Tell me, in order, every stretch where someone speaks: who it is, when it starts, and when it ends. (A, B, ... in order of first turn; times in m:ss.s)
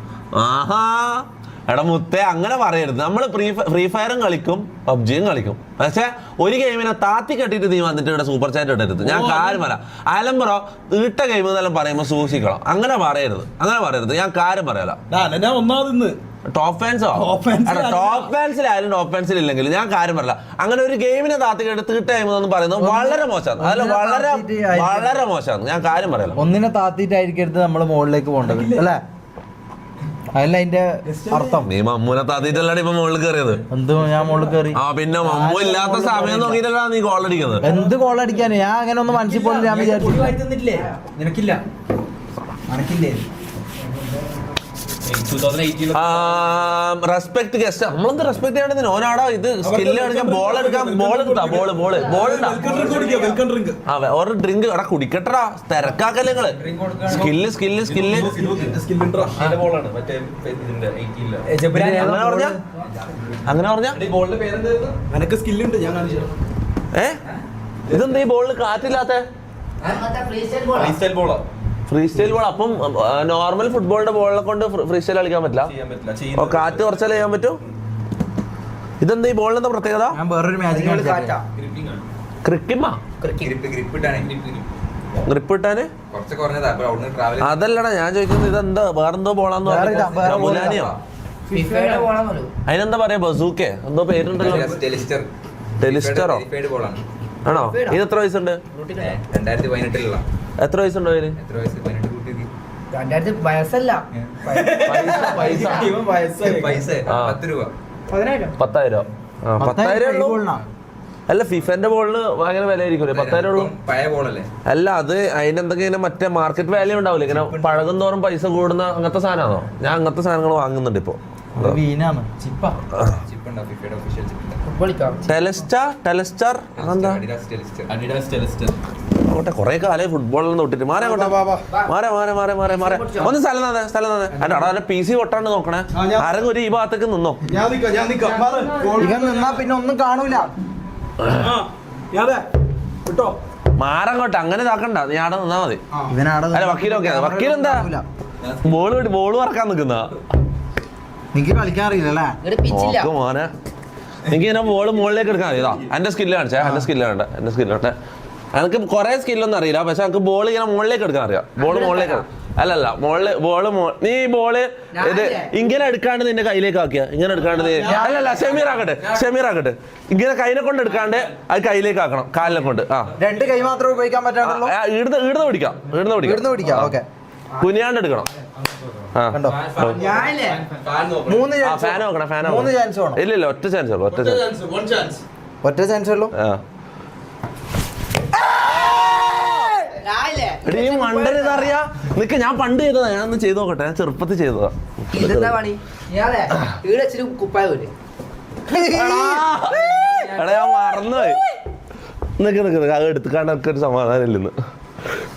0:00.3-0:15.0 A
0:09.0-0:09.6 B
0:15.1-0:16.2 B
0:16.5-0:26.4 A
0:17.1-0:18.3 B
0:22.8-0:25.2 C
0:26.4-0:29.0 C
0:28.4-0:28.9 B
0:30.3-0:31.7 C
0:31.1-0:31.6 B
0:31.6-0:33.6 A
0:33.7-0:36.6 C
0:34.2-0:34.5 B
0:34.7-0:37.6 A
0:37.5-0:38.2 B
0:37.6-0:40.3 C
0:39.1-0:40.4 B
0:40.1-0:40.8 D
0:42.7-0:43.2 D
0:45.9-0:52.9 A
0:49.6-0:53.8 B
0:52.6-0:53.4 E
0:53.9-0:58.5 A
0:56.6-0:57.3 D
0:57.8-0:59.4 B
0:59.4-0:59.8 A
0:59.4-1:02.3 D
1:01.5-1:02.0 B
1:01.7-1:02.6 C
1:01.7-1:02.6 A
1:03.4-1:04.0 A
1:03.9-1:06.3 B
1:06.9-1:07.2 A
1:07.9-1:08.2 B
1:07.9-1:09.2 A
1:09.8-1:11.0 E
1:10.8-1:11.4 B
1:11.9-1:15.7 A
1:15.7-1:17.0 B
1:16.3-1:17.6 A
1:19.0-1:20.2 A
1:20.1-1:21.4 C
1:20.7-1:21.4 E
1:22.4-1:23.0 A
1:23.2-1:23.5 E
1:23.4-1:24.7 D
1:25.2-1:25.9 A
1:26.1-1:27.7 D
1:27.4-1:31.0 A
1:29.6-1:30.8 C
1:29.8-1:30.8 D
1:31.5-1:32.5 E
1:31.6-1:32.0 B
1:32.7-1:34.8 A
1:34.3-1:35.3 D
1:35.8-1:36.4 A
1:35.8-1:37.0 D
1:37.4-1:38.6 A
1:37.7-1:38.0 E
1:38.7-1:39.2 E
1:39.0-1:40.2 D
1:40.6-1:41.4 A
1:41.4-1:42.5 D
1:42.9-1:45.9 E
1:44.1-1:44.7 D
1:44.5-1:47.0 B
1:44.8-1:45.8 A
1:46.2-1:47.7 D
1:47.1-1:47.4 A
1:48.1-1:48.5 E
1:48.6-1:50.4 A
1:49.6-1:50.6 C
1:51.3-1:53.7 A
1:53.1-1:54.5 D
1:54.6-2:01.8 A
1:57.2-1:57.9 D
2:01.5-2:02.3 C
2:02.4-2:04.6 D
2:04.6-2:05.2 E
2:05.2-2:07.2 A
2:06.8-2:08.6 D
2:09.3-2:17.4 A
2:11.0-2:11.6 B
2:12.7-2:13.3 E
2:15.9-2:16.3 B
2:17.5-2:19.6 B
2:18.5-2:19.0 E
2:18.9-2:20.5 C
2:21.2-2:21.5 A
2:21.4-2:22.4 B
2:23.0-2:23.4 B
2:23.8-2:25.8 A
2:26.1-2:28.0 C
2:26.5-2:27.9 A
2:28.6-2:30.1 A
2:31.3-2:32.4 C
2:32.4-2:33.1 E
2:32.7-2:33.5 A
2:34.3-2:37.9 A
2:36.6-2:36.9 C
2:38.5-2:53.2 A
2:41.6-2:42.2 E
2:44.9-2:45.5 E
2:47.5-2:48.2 B
2:47.8-2:48.5 E
2:53.2-2:54.7 C
2:54.4-2:57.0 A
2:56.2-2:57.0 C
2:57.6-2:58.3 A
2:58.6-2:58.8 B
2:59.1-3:00.2 A
2:59.3-2:59.6 C
2:59.9-3:00.6 E
3:00.0-3:01.4 B
3:01.2-3:03.2 C
3:01.6-3:04.6 A
3:04.1-3:05.2 B
3:05.6-3:06.3 C
3:06.3-3:06.6 A
3:10.0-3:11.7 E
3:10.6-3:15.5 A
3:15.1-3:17.9 E
3:18.7-3:20.1 C
3:18.7-3:21.4 A
3:22.4-3:24.5 A